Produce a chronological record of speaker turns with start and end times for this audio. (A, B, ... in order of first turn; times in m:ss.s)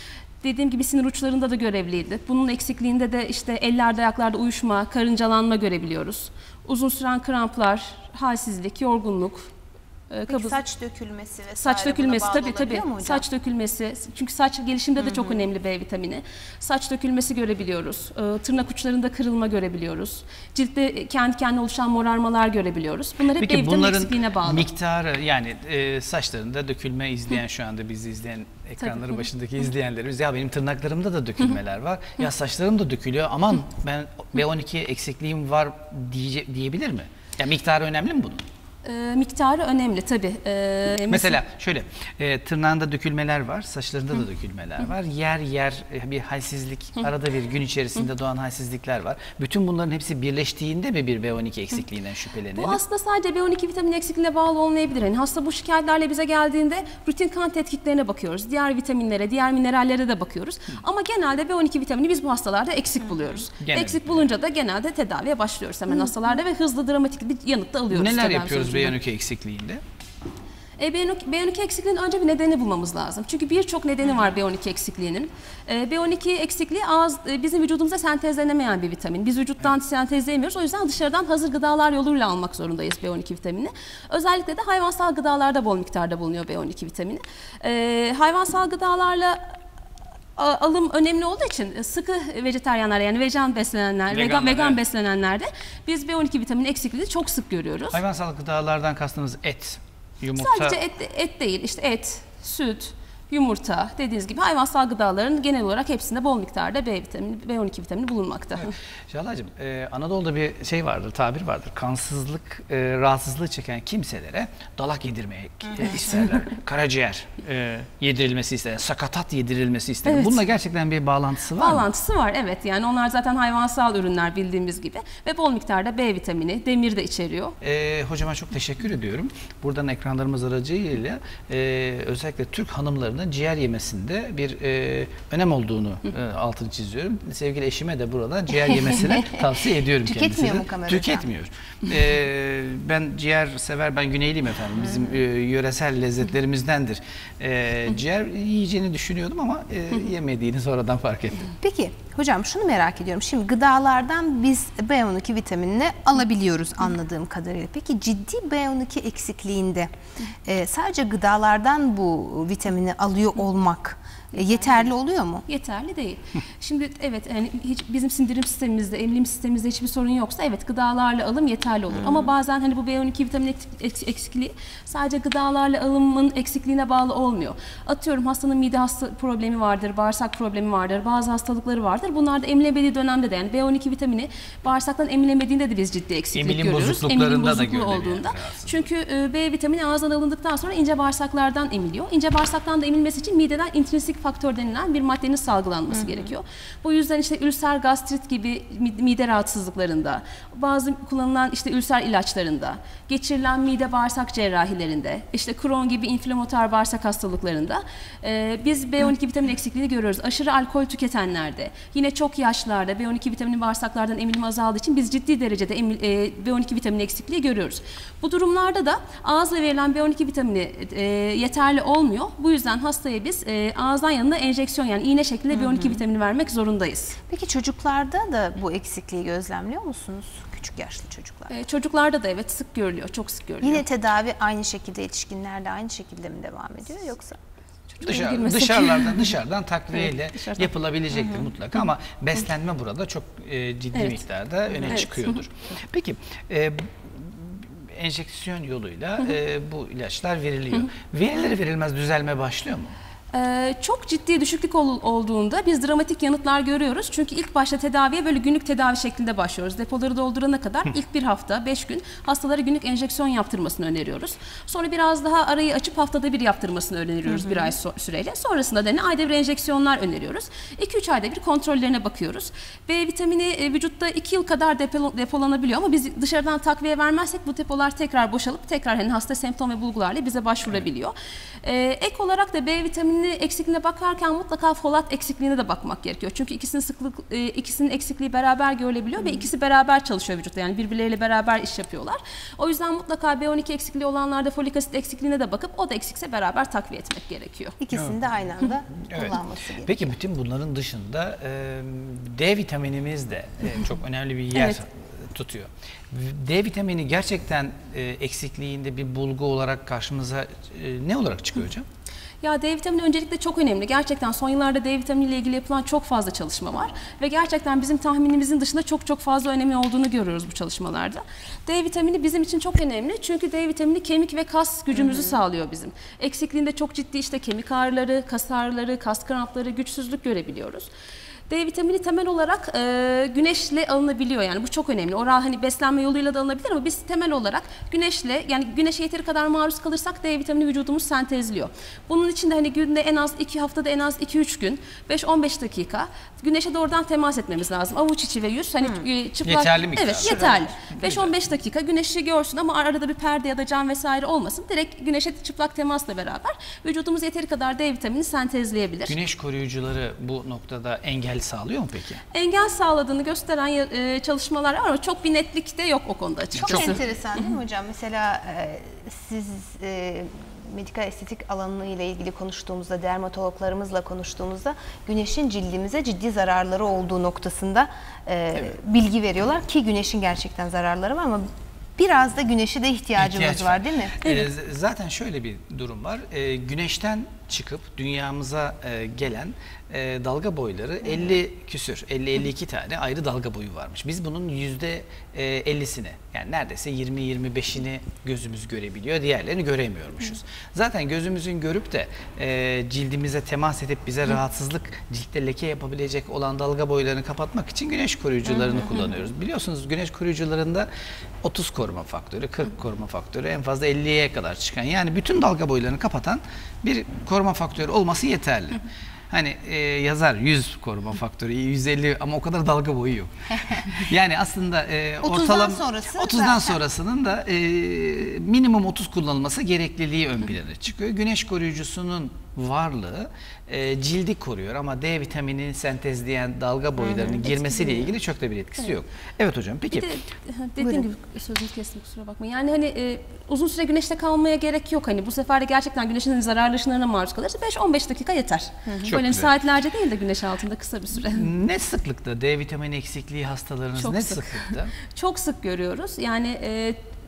0:00.4-0:09.5 A
0:10.1-0:10.6 A
0:10.3-0:13.2 B
0:11.6-0:24.7 A
0:15.0-0:15.4 B
0:23.4-0:38.5 C
0:28.8-0:29.1 A
0:38.8-0:41.4 A
0:41.1-0:52.8 C
0:52.6-1:09.0 A
1:03.6-1:04.3 C
1:07.9-1:09.8 C
1:10.8-1:29.5 A
1:30.4-1:38.0 A
1:34.1-1:34.8 C
1:37.9-1:40.8 C
1:40.4-1:48.7 A
1:48.6-2:01.9 C
2:00.1-2:00.4 A
2:01.6-2:07.6 A
2:07.6-2:31.5 C
2:20.0-2:21.3 B
2:31.6-2:39.9 B
2:40.4-2:45.5 B
2:44.5-2:44.8 A
2:45.5-3:47.2 A
2:51.9-2:52.3 B
3:06.4-3:08.9 C
3:15.9-3:16.3 B
3:45.5-3:46.0 B
3:47.3-3:51.5 B
3:51.5-3:53.8 A
3:53.6-3:57.4 B
3:57.9-3:59.3 A
3:58.0-4:13.0 C
4:00.1-4:00.7 A
4:04.9-4:05.4 A
4:13.3-4:57.8 A
4:27.3-4:27.7 B
4:49.2-4:49.4 B
4:57.8-5:00.1 B
4:59.0-5:11.9 C
5:12.4-5:30.9 A
5:25.0-5:25.3 B
5:31.5-5:59.2 A
5:49.4-5:51.3 C
5:50.2-5:50.6 B
5:59.1-6:02.2 C
6:02.3-6:07.0 A
6:06.6-6:24.2 B
6:06.6-6:07.0 C
6:23.2-6:50.9 C
6:24.2-6:24.5 A
6:51.4-7:20.1 C
7:05.2-7:06.8 B
7:17.0-7:17.4 B
7:17.5-7:18.1 A
7:19.9-7:31.5 A
7:20.8-7:21.1 B
7:28.9-7:29.1 B
7:29.1-7:29.5 C
7:31.3-7:34.9 C
7:34.0-7:37.0 A